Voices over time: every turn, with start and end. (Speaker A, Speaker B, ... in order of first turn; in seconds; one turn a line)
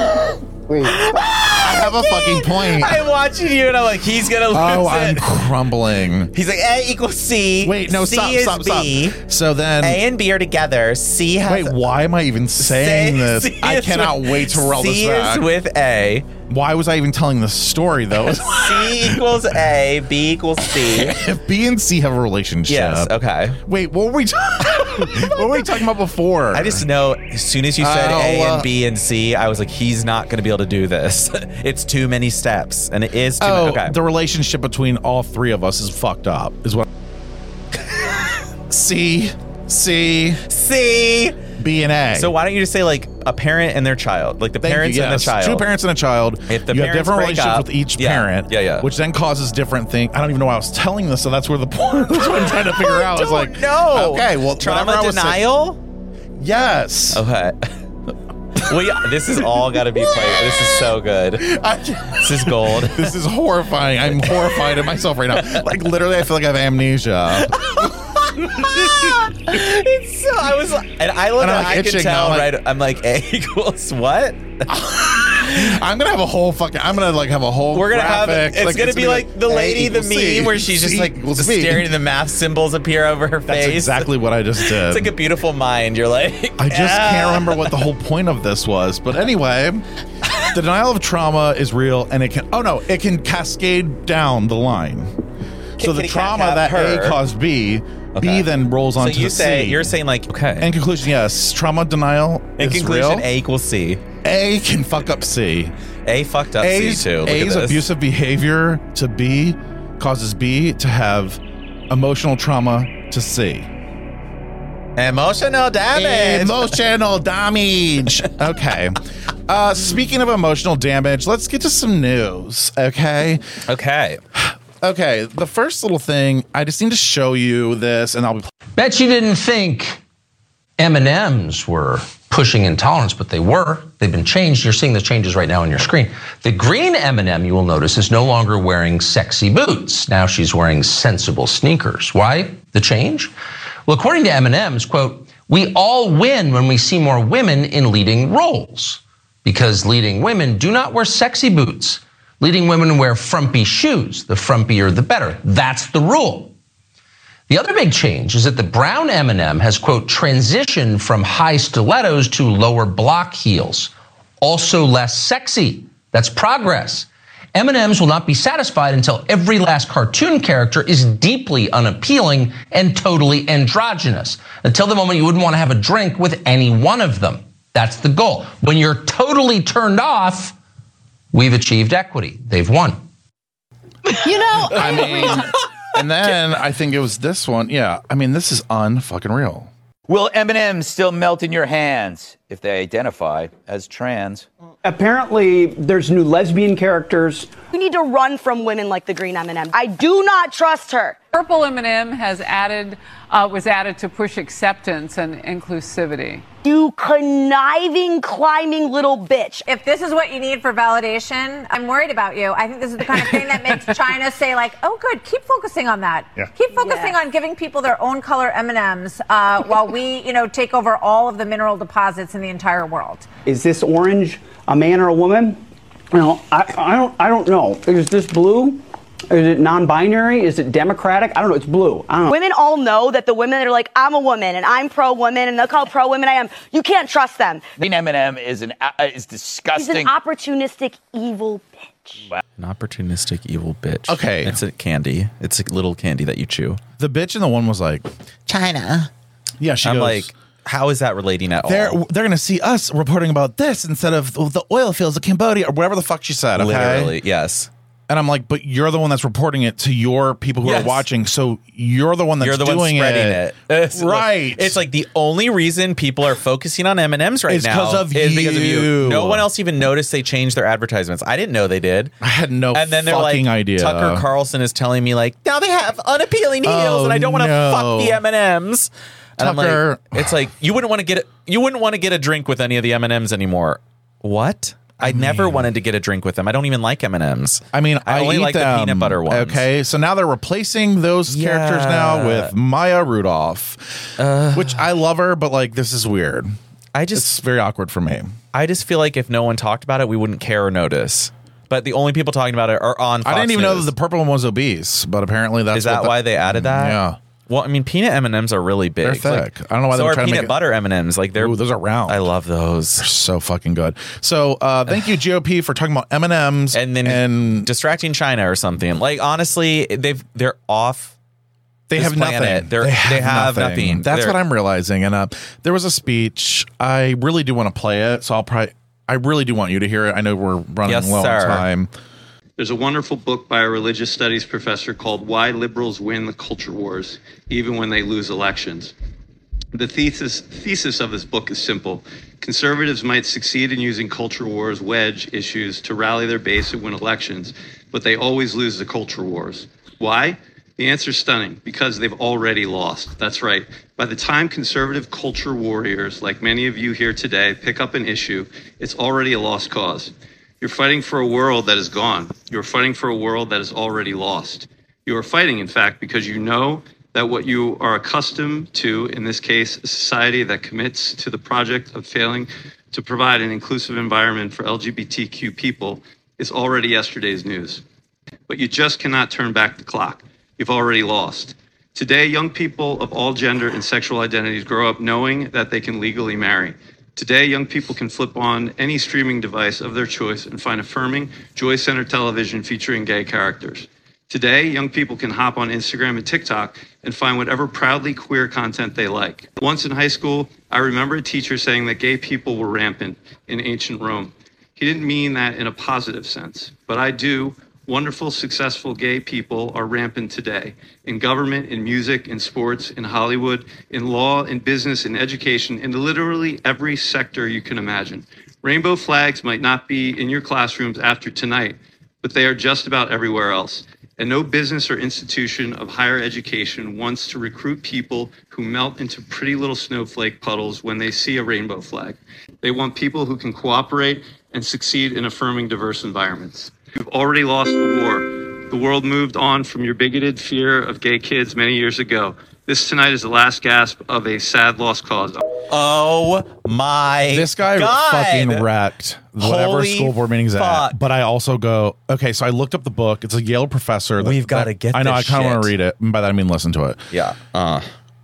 Speaker A: 0.7-3.0
Speaker B: 0.8-5.3
Speaker A: 4.5-6.3
Speaker B: 6.3-9.2
Speaker A: 7.6-10.0
Speaker B: 9.8-11.8
Speaker A: 11.4-15.5
Speaker B: 12.6-16.3
Speaker A: 16.5-19.3
Speaker B: 18.3-21.2
Speaker A: 20.7-26.8
Speaker B: 22.7-23.6
Speaker B: 24.8-25.6
Speaker B: 26.5-34.0
Speaker A: 27.8-28.7
Speaker A: 33.4-36.8
Speaker A: 38.7-40.4
Speaker B: 40.5-41.4
Speaker A: 41.6-42.3
Speaker B: 42.1-45.6
Speaker A: 44.6-55.4
Speaker B: 46.5-48.9
Speaker B: 52.2-55.8
Speaker A: 56.4-57.2
Speaker B: 57.1-57.7
Speaker B: 58.5-61.5
Speaker A: 60.0-60.7
Speaker A: 61.4-69.2
Speaker B: 62.1-63.1
Speaker B: 64.2-64.8
Speaker B: 65.3-65.6
Speaker B: 67.4-74.5
Speaker A: 71.4-72.5
Speaker A: 74.7-81.9
Speaker B: 75.4-75.6
Speaker B: 77.7-87.8
Speaker A: 83.5-85.1
Speaker A: 86.6-89.8
Speaker A: 90.5-95.1
Speaker B: 95.8-97.2
Speaker A: 95.8-100.0
Speaker B: 98.1-100.7
Speaker A: 100.6-103.3
Speaker B: 102.6-104.0
Speaker A: 104.2-105.7
Speaker B: 106.0-107.9
Speaker A: 106.6-113.7
Speaker B: 115.0-116.8
Speaker A: 115.9-123.4
Speaker B: 123.7-124.2
Speaker A: 124.3-128.5
Speaker C: 128.8-130.0
Speaker C: 130.8-143.3
Speaker C: 143.8-156.5
Speaker C: 157.5-180.6
Speaker C: 181.3-183.1
Speaker D: 184.2-185.0
Speaker A: 184.7-189.7
Speaker E: 190.1-194.4
Speaker F: 194.8-197.5
Speaker D: 197.7-201.2
Speaker G: 201.3-206.4
Speaker D: 206.6-209.6
Speaker H: 209.6-223.3
Speaker F: 223.4-232.3
Speaker D: 232.3-237.7
Speaker E: 237.8-240.1
Speaker D: 239.7-242.2
Speaker B: 242.6-246.8
Speaker A: 244.1-244.6
Speaker A: 247.0-248.1
Speaker B: 248.5-249.1
Speaker A: 249.6-250.3
Speaker B: 249.8-252.0
Speaker A: 251.6-257.1
Speaker B: 256.6-257.7
Speaker A: 258.1-264.8
Speaker B: 260.6-261.1
Speaker B: 262.4-272.1
Speaker A: 267.5-269.5
Speaker A: 272.2-274.2
Speaker B: 272.7-289.6
Speaker A: 276.6-278.2
Speaker A: 279.4-280.3
Speaker A: 285.0-285.7
Speaker A: 287.7-296.5
Speaker B: 291.3-292.5
Speaker B: 294.2-294.9
Speaker B: 296.9-297.3
Speaker A: 297.1-298.3
Speaker B: 298.5-303.9
Speaker A: 303.2-307.2
Speaker B: 305.7-313.1
Speaker A: 309.0-310.6
Speaker A: 311.4-312.3
Speaker A: 313.0-317.7
Speaker B: 316.7-321.1
Speaker A: 321.9-331.9
Speaker B: 321.9-324.4
Speaker B: 330.8-331.6
Speaker I: 332.6-338.9
Speaker I: 339.7-377.8
Speaker I: 378.5-445.4
Speaker B: 445.7-448.7
Speaker A: 447.3-457.0
Speaker B: 449.4-451.0
Speaker B: 454.2-455.7
Speaker B: 457.1-457.9